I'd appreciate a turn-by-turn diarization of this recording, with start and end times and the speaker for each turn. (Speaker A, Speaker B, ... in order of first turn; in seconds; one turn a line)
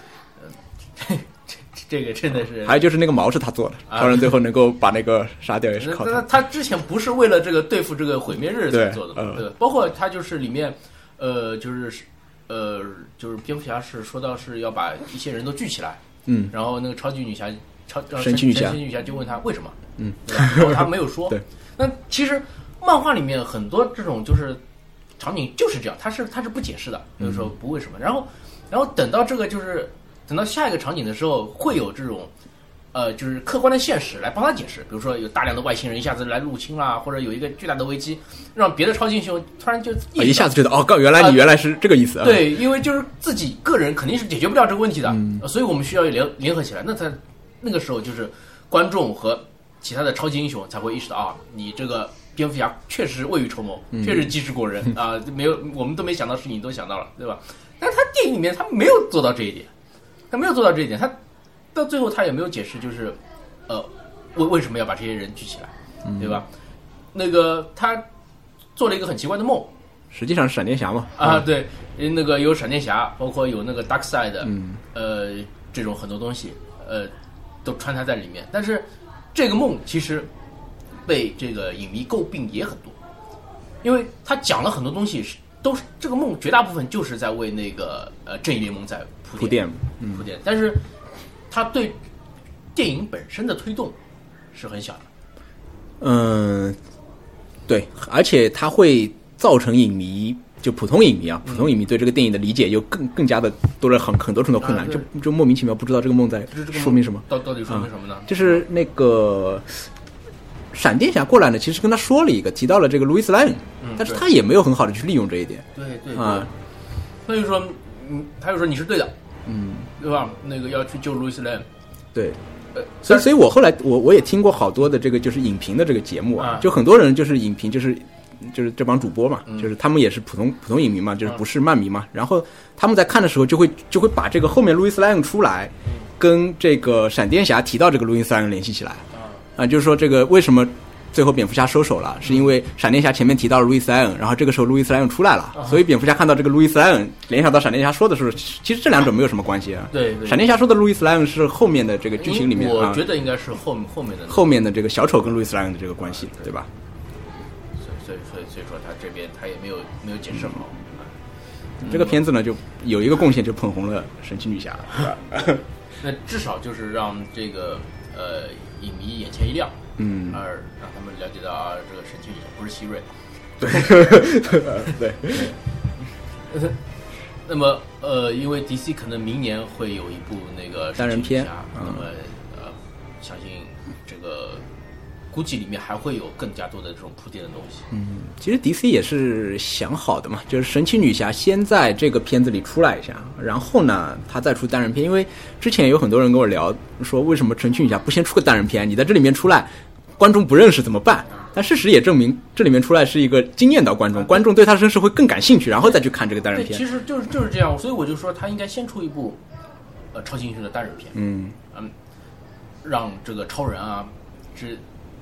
Speaker A: 0.4-2.8
Speaker B: 2.5-6.2
Speaker A: 3.9-4.3
Speaker A: 5.8-24.6
Speaker B: 8.7-9.4
Speaker B: 16.2-16.5
Speaker B: 18.2-18.8
Speaker B: 20.0-21.4
Speaker A: 25.2-32.3
Speaker B: 27.2-27.5
Speaker A: 32.9-40.5
Speaker B: 40.1-42.5
Speaker A: 41.1-41.4
Speaker A: 42.2-59.7
Speaker B: 45.1-45.4
Speaker B: 53.9-54.2
Speaker A: 60.3-61.1
Speaker A: 61.7-66.5
Speaker B: 66.0-66.4
Speaker A: 67.1-68.0
Speaker A: 68.8-69.7
Speaker B: 70.1-71.4
Speaker A: 71.2-77.1
Speaker B: 74.5-74.8
Speaker A: 77.6-80.3
Speaker A: 81.0-83.0
Speaker A: 83.8-90.8
Speaker B: 89.4-90.2
Speaker A: 91.5-92.0
Speaker A: 92.7-94.0
Speaker A: 94.5-95.1
Speaker B: 96.0-96.8
Speaker B: 97.7-109.8
Speaker A: 101.5-101.7
Speaker A: 104.6-105.1
Speaker A: 106.5-108.7
Speaker B: 110.7-116.5
Speaker A: 113.8-114.3
Speaker A: 115.7-116.5
Speaker A: 117.2-119.1
Speaker B: 119.5-119.9
Speaker A: 120.0-121.7
Speaker B: 122.1-122.4
Speaker A: 122.8-123.3
Speaker B: 123.0-139.0
Speaker A: 126.4-126.7
Speaker B: 139.6-153.0
Speaker A: 149.9-150.4
Speaker A: 152.2-154.5
Speaker B: 154.3-156.7
Speaker A: 157.8-161.1
Speaker B: 161.8-165.6
Speaker A: 161.8-162.2
Speaker A: 166.0-173.1
Speaker B: 170.0-170.4
Speaker B: 173.6-175.6
Speaker A: 173.6-175.5
Speaker A: 176.5-176.8
Speaker A: 177.4-184.6
Speaker B: 181.0-182.1
Speaker A: 185.3-187.9
Speaker B: 187.9-206.8
Speaker A: 206.5-209.4
Speaker A: 210.1-211.2
Speaker B: 211.1-211.6
Speaker A: 212.8-214.8